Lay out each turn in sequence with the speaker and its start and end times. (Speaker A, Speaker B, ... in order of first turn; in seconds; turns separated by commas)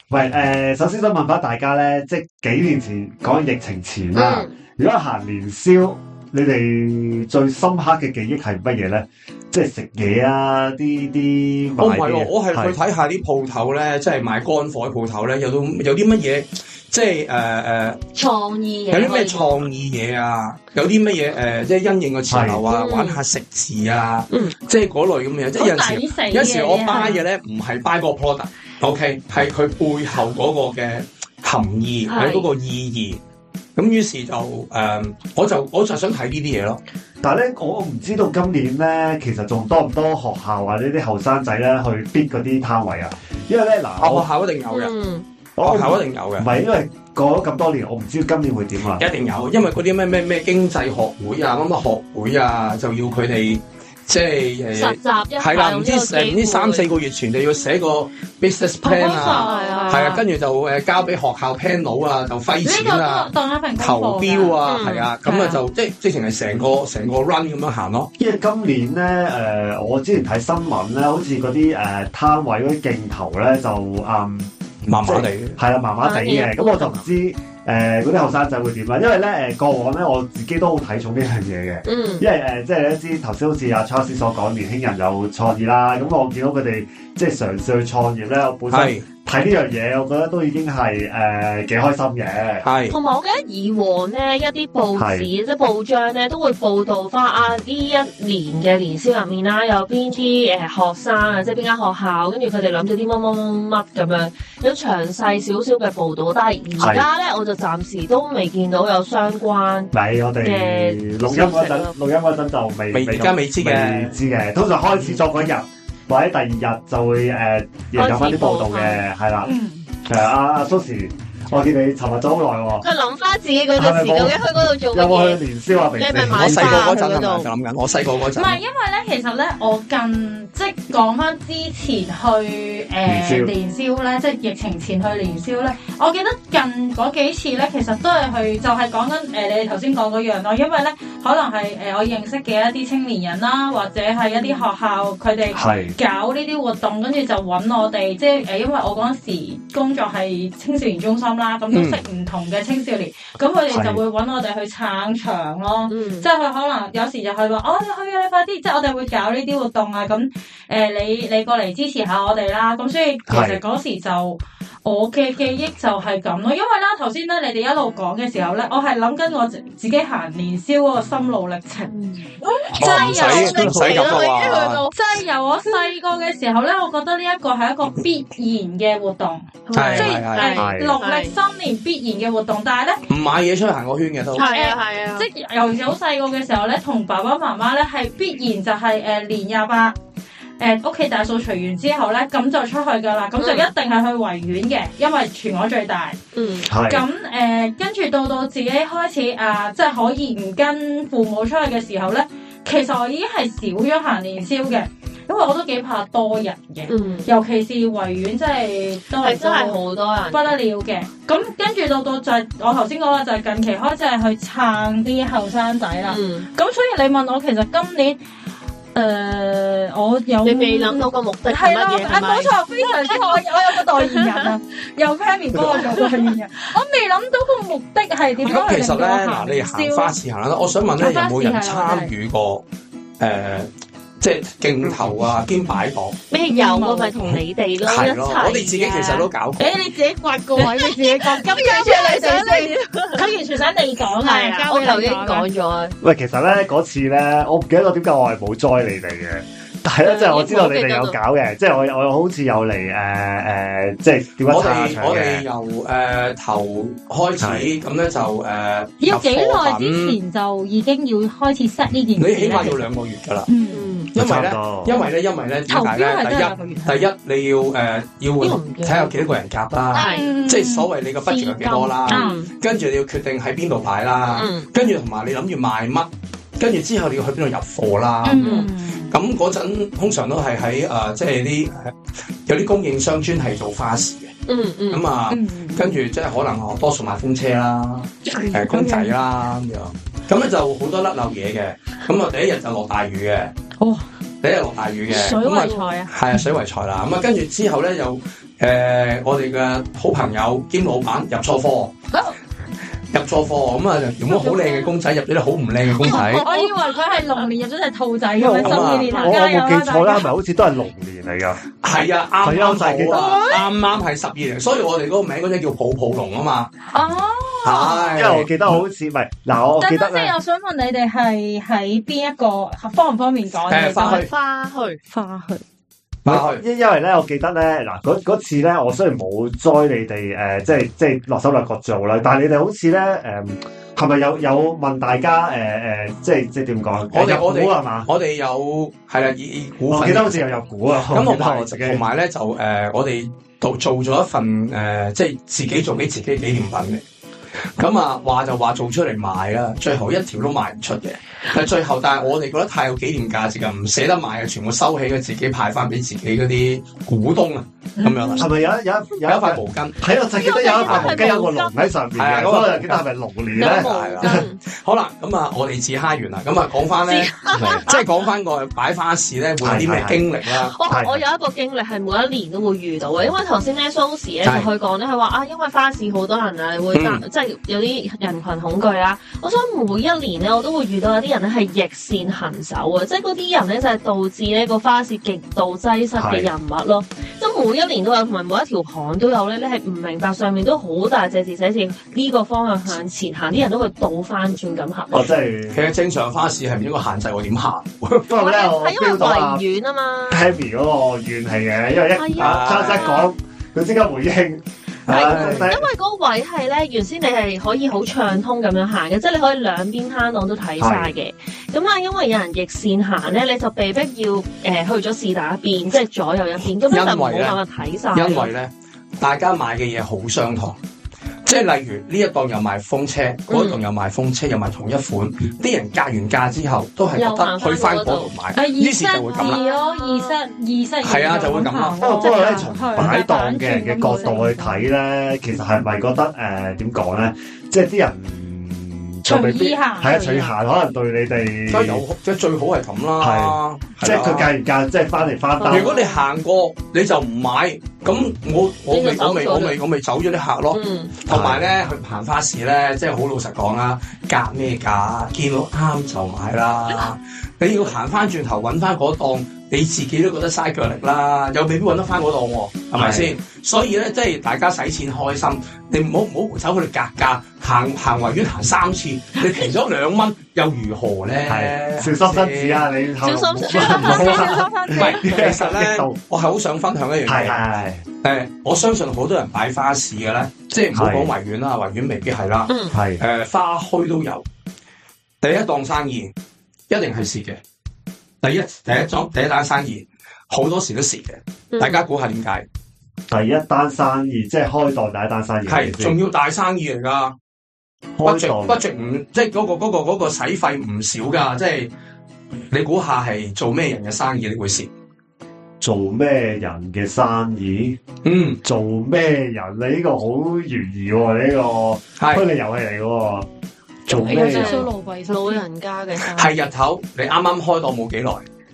Speaker A: 0.1-12.8, Speaker B: 4.2-4.5, Speaker C: 11.8-18.0, Speaker B: 18.1-19.7, Speaker C: 18.9-33.2, Speaker A: 22.3-22.6, Speaker B: 22.7-23.2, Speaker D: 25.6-27.2, Speaker B: 32.1-32.5, Speaker C: 33.8-36.8, Speaker A: 37.2-44.3, Speaker C: 44.0-44.9, Speaker B: 44.7-45.3, Speaker A: 45.6-49.0, Speaker C: 45.6-46.5, Speaker C: 49.0-68.1, Speaker B: 54.7-56.9, Speaker D: 58.8-60.1, Speaker B: 59.1-60.2, Speaker D: 62.6-64.6, Speaker B: 64.6-65.6, Speaker D: 65.2-65.6, Speaker A: 68.2-92.7, Speaker C: 74.9-75.6, Speaker B: 76.0-77.0, Speaker B: 81.8-82.3, Speaker C: 88.7-89.0, Speaker C: 92.6-93.0, Speaker B: 92.9-112.0, Speaker A: 95.0-95.3, Speaker A: 106.8-107.1, Speaker A: 109.9-119.5, Speaker C: 112.9-114.1, Speaker B: 117.9-119.0, Speaker D: 119.4-119.9, Speaker A: 120.0-122.9, Speaker B: 122.8-125.4, Speaker A: 123.8-127.0, Speaker B: 126.0-127.5, Speaker C: 126.3-128.6, Speaker D: 128.3-174.2, Speaker A: 133.1-133.5, Speaker B: 144.3-144.7, Speaker A: 145.5-145.9, Speaker C: 151.7-152.0, Speaker A: 153.7-154.0, Speaker B: 155.9-156.3, Speaker A: 163.3-163.6, Speaker B: 171.9-174.9, Speaker C: 172.8-174.9, Speaker A: 173.3-174.2, Speaker D: 174.9-183.0, Speaker B: 179.7-181.3, Speaker C: 179.7-180.6, Speaker A: 180.6-181.0, Speaker C: 183.1-184.5, Speaker B: 184.3-185.3, Speaker D: 184.4-190.0, Speaker D: 190.6-196.2, Speaker B: 193.4-193.7, Speaker B: 196.3-196.7, Speaker A: 196.7-197.1, Speaker D: 196.8-218.2, Speaker B: 206.9-207.3, Speaker B: 209.2-210.6, Speaker B: 216.1-216.5, Speaker D: 218.9-230.2, Speaker B: 220.4-224.4, Speaker A: 225.5-225.9, Speaker B: 225.7-226.3, Speaker C: 228.4-232.7, Speaker D: 231.0-232.1, Speaker C: 233.2-233.7, Speaker C: 234.2-236.2, Speaker A: 234.8-235.2, Speaker B: 236.3-239.3, Speaker D: 236.5-237.2, Speaker C: 237.2-239.8, Speaker D: 239.6-245.5, Speaker B: 240.6-243.3, Speaker B: 244.2-246.0, Speaker A: 246.0-255.5, Speaker B: 250.1-251.2, Speaker C: 254.5-260.2, Speaker A: 257.4-257.7, Speaker D: 259.0-262.8, Speaker C: 262.2-263.5, Speaker B: 262.5-262.8, Speaker D: 263.5-263.9, Speaker B: 263.7-264.1, Speaker C: 264.1-281.9, Speaker A: 264.1-265.0, Speaker D: 265.7-267.1, Speaker B: 268.4-269.1, Speaker B: 269.9-270.3, Speaker D: 269.9-272.4, Speaker B: 271.3-272.5, Speaker B: 274.3-274.7, Speaker D: 278.2-279.1, Speaker B: 278.4-278.7, Speaker C: 282.5-284.4, Speaker B: 284.5-285.0, Speaker C: 284.9-293.5, Speaker D: 285.3-286.0, Speaker D: 288.3-289.1, Speaker D: 293.8-294.1, Speaker C: 294.4-301.9, Speaker B: 295.1-296.1, Speaker C: 303.1-306.4, Speaker D: 304.3-304.9, Speaker D: 306.0-310.3, Speaker B: 306.1-306.7, Speaker A: 308.4-311.7, Speaker C: 308.6-309.2, Speaker C: 311.8-316.7, Speaker A: 312.4-313.4, Speaker D: 313.1-313.6, Speaker D: 316.9-318.2, Speaker C: 317.6-318.8, Speaker A: 318.1-320.3, Speaker D: 319.8-324.3, Speaker C: 323.7-324.3, Speaker B: 324.0-325.0, Speaker D: 325.1-325.6, Speaker C: 326.2-326.6, Speaker A: 326.3-338.1, Speaker C: 337.1-340.6, Speaker A: 339.9-342.0, Speaker C: 341.1-347.0, Speaker C: 347.8-358.5, Speaker D: 358.0-358.5, Speaker A: 358.4-364.5, Speaker C: 359.2-360.0, Speaker B: 360.3-361.9, Speaker C: 360.8-361.3, Speaker C: 362.2-363.0, Speaker B: 363.6-364.6, Speaker C: 363.6-370.8, Speaker B: 367.1-368.1, Speaker A: 367.6-367.9, Speaker A: 369.6-370.3, Speaker B: 370.5-395.2, Speaker A: 370.9-371.2, Speaker C: 374.4-374.7, Speaker C: 376.9-377.2, Speaker A: 386.2-386.5, Speaker A: 395.1-395.8, Speaker C: 395.7-398.3, Speaker A: 398.3-399.6, Speaker B: 398.4-400.5, Speaker A: 400.3-405.9, Speaker B: 402.1-403.3, Speaker C: 402.4-403.2, Speaker C: 405.1-405.7, Speaker B: 405.1-418.5, Speaker A: 410.8-411.1, Speaker C: 416.9-417.6, Speaker C: 418.1-420.8, Speaker C: 421.4-429.6, Speaker B: 423.5-423.8, Speaker B: 427.1-428.3, Speaker D: 428.5-434.9, Speaker B: 429.3-430.4, Speaker C: 431.0-432.1, Speaker A: 432.0-442.0, Speaker D: 439.3-440.5, Speaker C: 441.7-444.5, Speaker A: 443.2-445.9, Speaker B: 445.6-446.2, Speaker C: 445.7-472.9, Speaker B: 448.9-449.8, Speaker B: 450.7-451.2, Speaker A: 451.3-451.7, Speaker A: 462.9-463.3, Speaker A: 471.4-476.2, Speaker B: 473.2-475.5, Speaker D: 473.6-475.2, Speaker C: 475.0-477.6, Speaker A: 477.2-478.1, Speaker C: 478.2-484.4, Speaker A: 480.9-481.3, Speaker B: 482.7-483.0, Speaker A: 482.9-483.2, Speaker C: 485.4-486.3, Speaker C: 486.9-487.6, Speaker C: 488.4-492.7, Speaker B: 491.7-492.1, Speaker A: 493.3-496.2, Speaker C: 495.7-497.4, Speaker A: 498.2-498.8, Speaker C: 498.2-501.9, Speaker C: 502.6-504.9, Speaker A: 505.8-508.0, Speaker C: 508.2-508.6, Speaker A: 508.6-513.5, Speaker C: 512.2-512.5, Speaker A: 514.1-514.9, Speaker B: 514.1-516.5, Speaker D: 514.2-515.6, Speaker C: 516.2-518.4